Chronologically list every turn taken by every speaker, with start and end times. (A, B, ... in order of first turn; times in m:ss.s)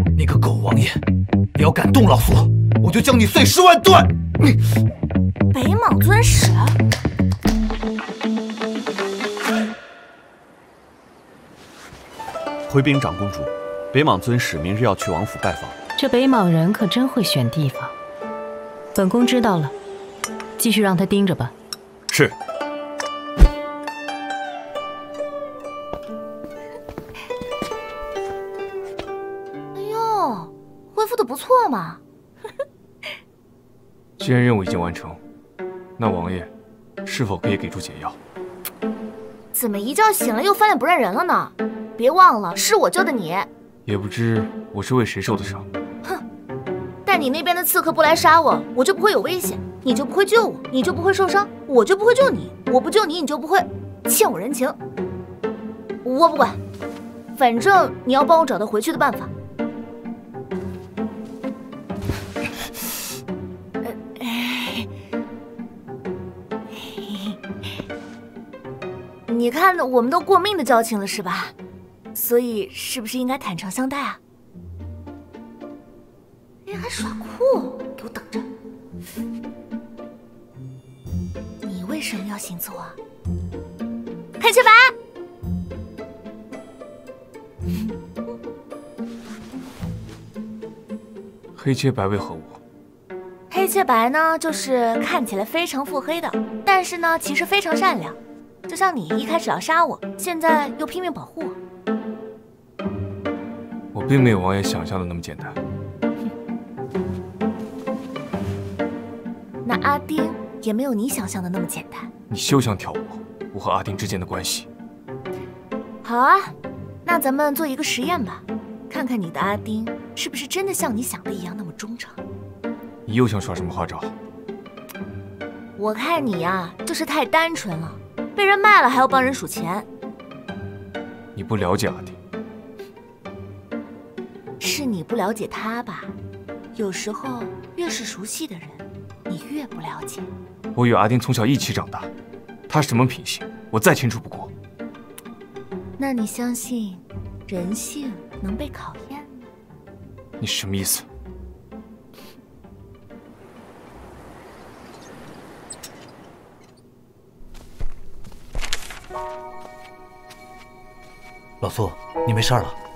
0:00.2-0:01.0 A
0:01.6-0:04.6 A
0:05.5-0:06.8 B
0:12.7-0:15.8 C
0:16.0-0:17.9 D
0:18.9-0:19.7 D
0:20.6-0:21.5 D
0:22.1-0:22.3 C
0:29.7-0:32.0 B
0:34.2-0:35.2 E
0:36.0-0:36.5 E
0:37.0-0:38.2 E
0:39.5-0:43.5 B
0:43.8-0:45.6 E
0:47.0-0:54.8 B
0:56.0-0:56.6 B
0:57.4-0:59.3 B
1:03.8-1:04.9 B
1:06.8-1:07.4 B
1:09.3-1:11.5 B
1:12.1-1:14.2 B
1:16.6-1:18.5 B
1:21.6-1:23.0 B
1:24.4-1:24.9 B
1:31.5-1:32.6 E
1:33.5-1:41.6 B
1:43.9-1:45.6 E
1:49.6-1:52.1 B
1:52.3-1:54.7 E
1:56.0-2:02.2 B
2:03.0-2:04.1 E
2:05.8-2:09.9 B
2:11.3-2:12.2 E
2:14.6-2:16.1 B
2:16.7-2:20.3 B
2:20.7-2:22.1 E
2:22.7-2:24.5 E
2:26.0-2:29.5 B
2:30.4-2:31.0 E
2:41.6-2:42.7 A